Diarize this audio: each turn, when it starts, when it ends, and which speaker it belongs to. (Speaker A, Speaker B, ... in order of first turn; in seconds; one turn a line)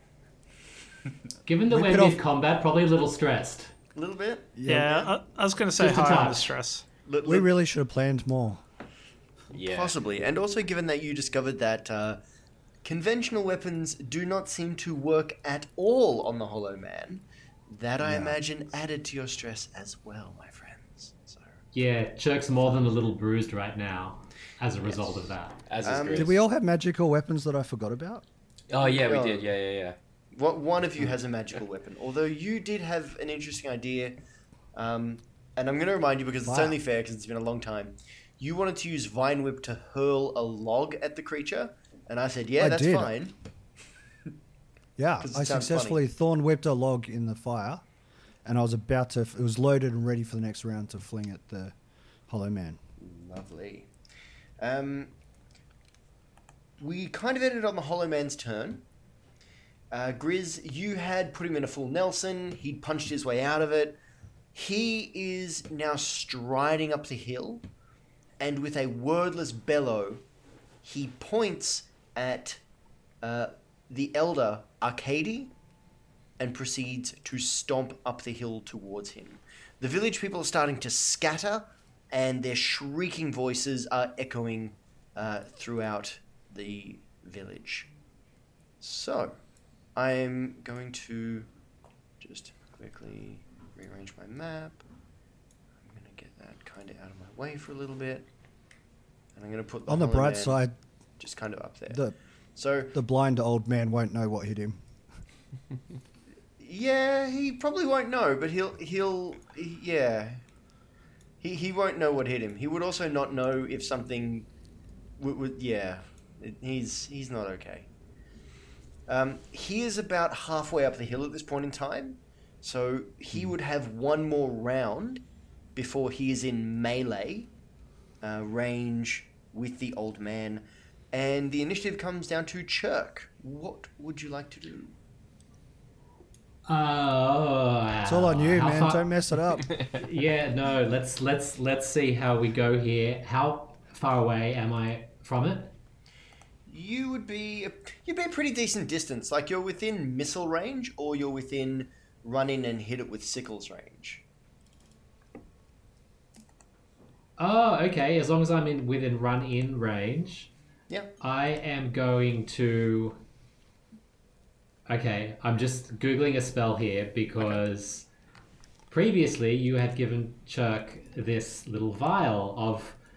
Speaker A: 1.4-3.7
Speaker B: 1.7-2.2
Speaker C: 3.9-5.1
Speaker B: 4.5-4.9
Speaker D: 4.7-6.8
Speaker A: 5.8-6.5
Speaker C: 7.0-7.5
Speaker B: 7.2-8.6
Speaker E: 9.5-9.9
Speaker C: 9.6-12.2
Speaker C: 12.8-21.6
Speaker B: 18.0-18.4
Speaker A: 21.7-25.6
Speaker E: 25.7-26.3
Speaker C: 25.8-26.3
Speaker B: 26.1-28.2
Speaker E: 28.7-29.9
Speaker C: 28.8-29.5
Speaker C: 30.3-34.2
Speaker C: 34.7-43.3
Speaker B: 36.4-36.8
Speaker B: 42.6-43.1
Speaker B: 45.0-47.8
Speaker C: 45.2-46.0
Speaker B: 48.4-51.7
Speaker B: 52.3-52.8
Speaker C: 53.0-53.9
Speaker C: 54.6-55.1
Speaker C: 56.8-58.8
Speaker C: 59.9-64.0
Speaker C: 64.5-67.6
Speaker C: 68.4-70.2
Speaker C: 70.8-72.6
Speaker C: 73.2-75.5
Speaker C: 76.4-87.9
Speaker C: 88.8-89.4
Speaker C: 90.0-91.5
Speaker C: 92.2-94.8
Speaker C: 95.8-98.3
Speaker C: 99.3-100.7
Speaker B: 99.9-100.8
Speaker C: 101.2-102.0
Speaker B: 101.9-102.2
Speaker C: 102.5-102.9
Speaker B: 102.9-104.8
Speaker C: 106.6-110.4
Speaker C: 111.4-114.5
Speaker C: 115.2-117.9
Speaker C: 119.1-125.2
Speaker C: 125.7-127.5
Speaker C: 128.2-134.9
Speaker A: 136.7-145.7
Speaker B: 138.0-139.7
Speaker C: 146.7-154.2
Speaker A: 157.4-160.5
Speaker A: 161.2-163.2
Speaker A: 164.9-168.1
Speaker A: 168.9-173.0